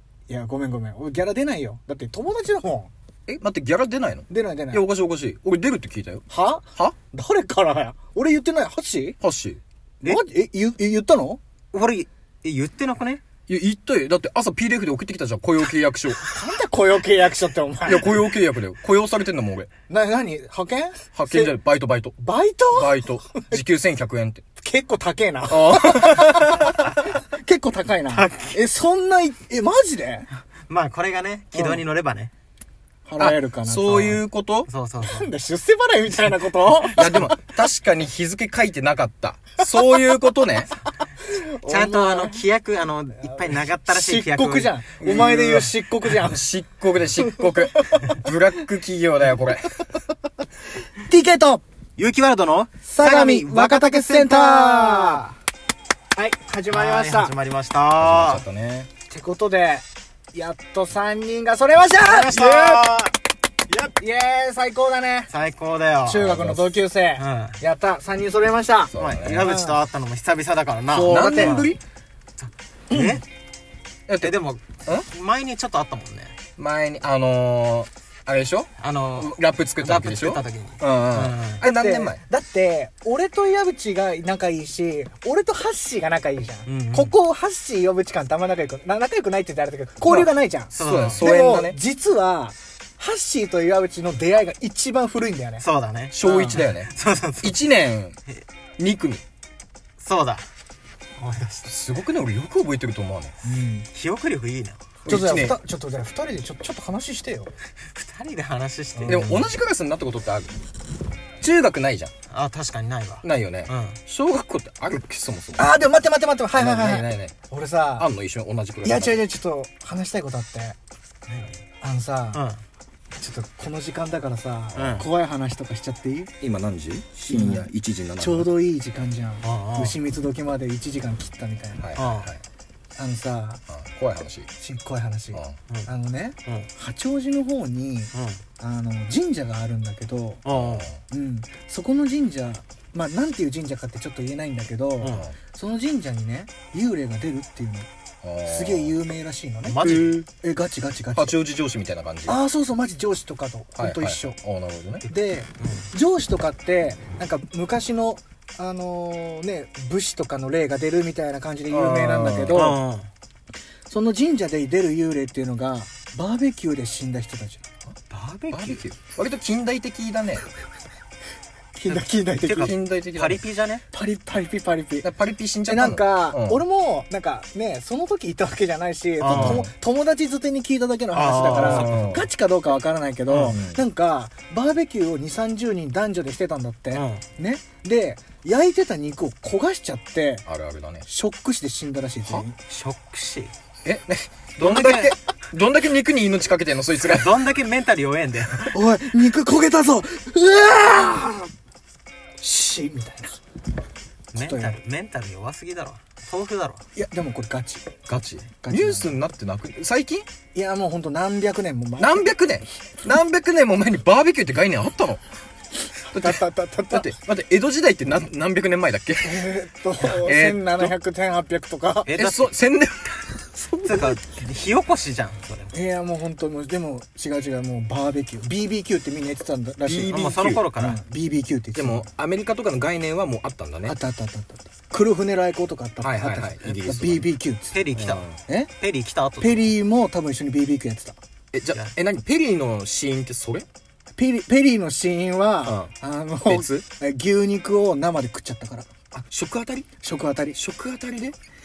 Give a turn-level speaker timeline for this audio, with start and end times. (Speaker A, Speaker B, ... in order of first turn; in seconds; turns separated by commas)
Speaker A: 0.3-2.9, Speaker B: 3.3-6.2, Speaker A: 4.3-4.8, Speaker A: 6.3-9.2, Speaker B: 9.2-9.6, Speaker A: 10.0-11.4, Speaker C: 11.7-13.2, Speaker B: 13.5-16.2, Speaker A: 16.2-18.2, Speaker B: 17.8-19.7, Speaker A: 19.9-21.5, Speaker B: 21.1-22.1, Speaker A: 22.2-23.6, Speaker B: 22.7-24.4, Speaker A: 24.6-30.3, Speaker B: 25.5-26.7, Speaker C: 28.1-28.6, Speaker C: 30.7-32.3, Speaker A: 31.5-31.8, Speaker A: 33.1-34.2, Speaker B: 33.2-34.7, Speaker C: 34.7-35.3, Speaker A: 35.0-37.4, Speaker B: 36.9-40.7, Speaker A: 41.3-42.4, Speaker C: 41.6-44.7, Speaker A: 43.2-46.4, Speaker B: 45.0-49.8, Speaker A: 51.0-51.6, Speaker C: 52.0-55.3, Speaker A: 52.9-55.2, Speaker A: 56.1-57.3, Speaker C: 56.7-58.4, Speaker B: 58.0-58.9, Speaker A: 59.1-62.5, Speaker C: 62.0-63.1, Speaker B: 62.3-63.0, Speaker A: 63.7-65.3, Speaker C: 65.3-66.3, Speaker A: 66.0-69.8, Speaker B: 66.2-66.7, Speaker C: 67.2-67.6, Speaker B: 68.9-69.5, Speaker C: 69.0-71.7, Speaker A: 70.9-71.7, Speaker B: 71.0-71.8, Speaker C: 72.4-73.2, Speaker A: 72.9-73.2, Speaker B: 74.1-74.3, Speaker C: 74.2-76.3, Speaker B: 76.6-82.2, Speaker C: 78.8-81.6, Speaker A: 81.6-95.6, Speaker C: 86.7-87.1, Speaker B: 90.0-91.8, Speaker C: 90.7-91.2, Speaker C: 95.6-97.6, Speaker B: 96.1-96.9, Speaker B: 97.4-98.2, Speaker B: 98.8-99.2, Speaker C: 100.0-100.5, Speaker C: 101.2-101.7, Speaker B: 101.6-103.3, Speaker A: 103.4-103.9, Speaker C: 103.9-104.8, Speaker B: 105.0-105.5, Speaker A: 105.1-107.5, Speaker C: 107.9-109.5, Speaker A: 109.0-109.5, Speaker B: 109.1-110.6, Speaker B: 111.4-112.1, Speaker C: 112.3-114.0, Speaker B: 113.2-115.7, Speaker A: 115.6-118.1, Speaker B: 116.5-117.3, Speaker B: 118.0-119.2, Speaker A: 118.8-120.8, Speaker C: 121.3-121.6, Speaker A: 121.8-122.4, Speaker C: 122.3-122.6, Speaker A: 123.2-126.3, Speaker B: 124.7-125.0, Speaker C: 124.8-125.1, Speaker B: 126.4-128.5, Speaker A: 127.3-127.7, Speaker A: 128.2-131.9, Speaker C: 129.4-130.0, Speaker B: 131.8-132.4, Speaker C: 131.9-132.3, Speaker A: 132.9-133.6, Speaker B: 133.7-134.5, Speaker A: 134.6-140.4, Speaker C: 138.1-138.4, Speaker C: 140.4-140.9, Speaker B: 140.5-141.0, Speaker A: 141.1-147.9, Speaker C: 145.0-145.3, Speaker B: 148.2-149.0, Speaker A: 148.4-151.4, Speaker C: 149.6-150.2, Speaker B: 149.8-150.3, Speaker B: 151.1-152.4, Speaker A: 152.3-154.4, Speaker B: 153.7-155.0, Speaker A: 155.1-162.8, Speaker C: 155.6-155.9, Speaker B: 161.7-162.8, Speaker C: 162.5-163.1, Speaker A: 163.9-167.6, Speaker C: 168.1-168.8, Speaker B: 168.5-170.5, Speaker A: 171.7-172.7, Speaker C: 171.9-173.8, Speaker B: 172.5-173.4, Speaker A: 173.9-175.1, Speaker B: 175.0-176.6, Speaker A: 175.6-190.5, Speaker C: 179.2-179.7, Speaker B: 179.3-179.7, Speaker C: 181.1-182.2, Speaker B: 181.5-182.3, Speaker C: 183.3-183.6, Speaker B: 183.5-183.8, Speaker C: 186.9-187.2, Speaker B: 190.5-191.1, Speaker A: 191.0-192.6, Speaker C: 192.7-193.5, Speaker B: 193.8-197.3, Speaker C: 194.6-195.2, Speaker C: 197.0-198.8, Speaker A: 198.7-201.5, Speaker A: 202.4-203.4, Speaker C: 204.3-206.8, Speaker A: 204.4-204.8, Speaker A: 206.9-207.9, Speaker B: 208.1-210.3, Speaker A: 208.6-209.1, Speaker A: 210.5-212.3, Speaker B: 212.0-215.2, Speaker B: 216.1-219.5, Speaker A: 216.1-217.1, Speaker A: 219.2-222.1, Speaker B: 220.2-220.9, Speaker C: 222.1-222.5, Speaker B: 222.1-224.2, Speaker C: 223.8-225.7, Speaker A: 225.7-230.2, Speaker B: 229.8-230.7, Speaker C: 230.1-231.0, Speaker A: 230.7-232.1, Speaker B: 231.7-233.9, Speaker A: 233.8-237.8, Speaker B: 236.0-237.3, Speaker C: 237.7-238.3, Speaker B: 237.9-238.4, Speaker C: 238.8-239.7, Speaker A: 239.4-241.2, Speaker B: 241.5-243.7, Speaker A: 244.2-248.9, Speaker B: 245.7-245.9, Speaker B: 246.5-246.8, Speaker B: 249.1-249.9, Speaker A: 250.0-250.6, Speaker B: 250.5-251.3